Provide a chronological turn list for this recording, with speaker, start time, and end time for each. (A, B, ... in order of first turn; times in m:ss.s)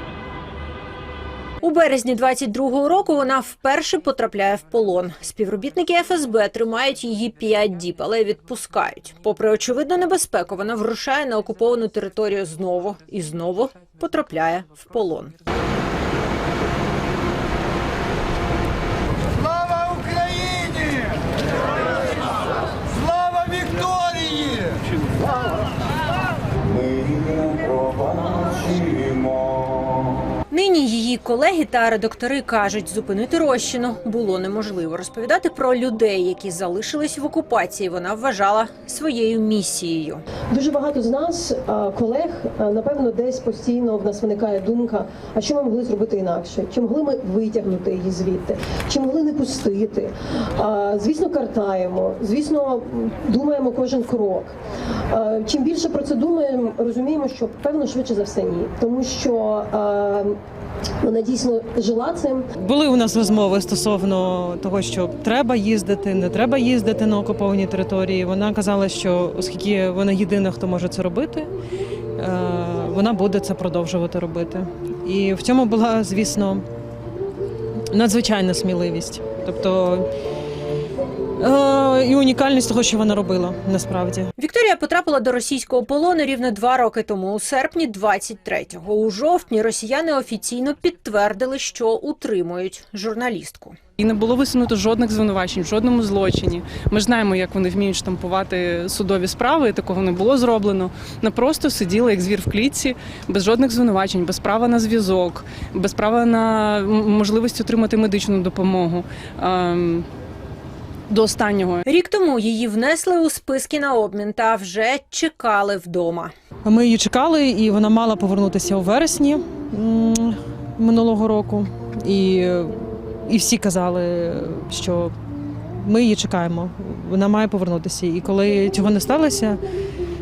0:01.6-0:15.3 A
0:30.5-0:40.2 A
0:40.5-0:54.6 B
0:55.1-1:00.4 B
1:01.0-1:02.4 B
1:02.6-1:11.5 C
1:12.2-1:16.7 C
1:17.9-1:20.1 C
1:21.4-1:24.3 C
1:24.4-1:33.8 A
1:34.0-1:50.1 D
1:51.1-1:51.8 D
1:51.9-1:56.3 A
1:56.6-2:05.2 C
2:05.8-2:09.6 C